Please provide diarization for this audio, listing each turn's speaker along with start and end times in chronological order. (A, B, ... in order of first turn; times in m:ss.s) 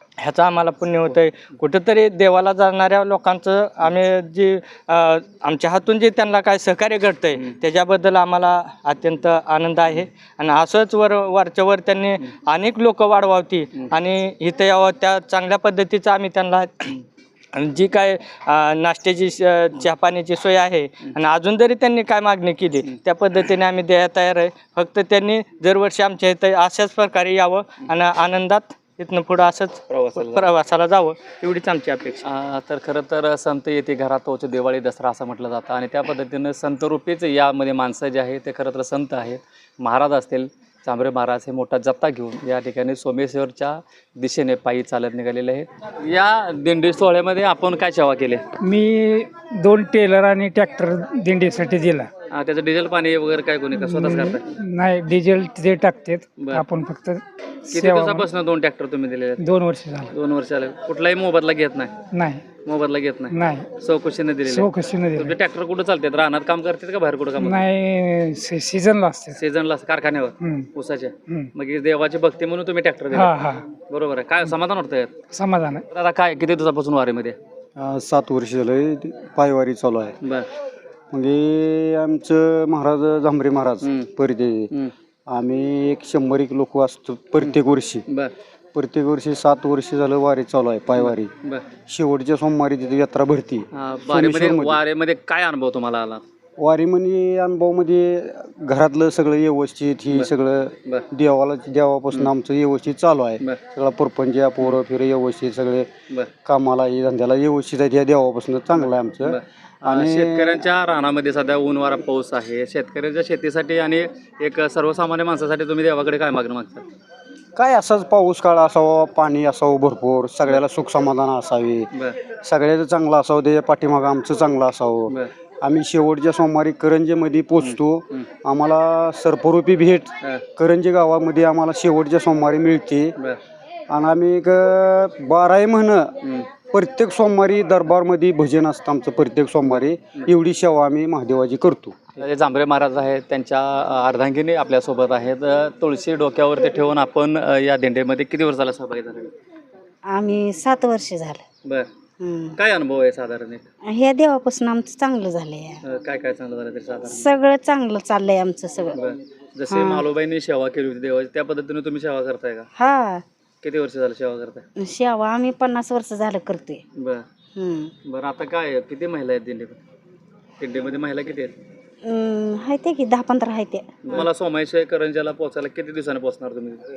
0:00.2-0:32.2 A
0:29.9-0:30.5 B
0:32.2-0:48.4 B
0:48.6-0:52.1 C
0:52.3-0:54.5 B
0:53.7-0:58.3 C
0:56.4-0:56.6 B
0:57.7-0:59.4 B
0:59.4-1:00.1 C
1:00.1-1:01.9 B
1:02.1-1:02.4 C
1:02.6-1:07.7 B
1:03.3-1:03.7 C
1:04.5-1:05.3 C
1:07.4-1:09.4 C
1:09.3-1:13.4 B
1:10.4-1:10.7 C
1:13.1-1:13.6 C
1:13.9-1:15.1 B
1:15.3-1:15.8 C
1:15.9-1:17.4 B
1:17.8-1:20.2 D
1:20.2-1:20.5 B
1:21.1-1:24.7 D
1:23.8-1:24.1 B
1:25.3-1:28.1 D
1:28.7-1:31.3 D
1:31.0-1:31.6 B
1:31.9-1:34.8 D
1:33.7-1:36.2 B
1:36.6-1:45.9 D
1:46.4-1:50.5 D
1:48.7-1:56.9 B
1:57.6-2:01.9 D
2:01.9-2:02.2 B
2:02.4-2:13.2 D
2:07.6-2:08.2 B
2:13.9-2:16.1 D
2:16.7-2:22.0 D
2:19.6-2:20.3 B
2:22.2-2:29.3 B
2:30.1-2:31.4 E
2:32.2-2:32.6 E
2:32.6-2:33.6 B
2:33.9-2:35.8 E
2:35.8-2:37.3 B
2:37.1-2:39.0 E
2:38.9-2:42.7 B
2:39.7-2:40.1 E
2:42.8-2:43.2 E
2:43.6-2:44.6 B
2:44.8-2:46.8 E
2:47.0-2:47.2 B
2:47.6-2:47.9 E
2:48.1-2:49.8 B
2:50.6-2:51.6 B
2:52.0-2:54.2 E
2:54.0-2:56.9 B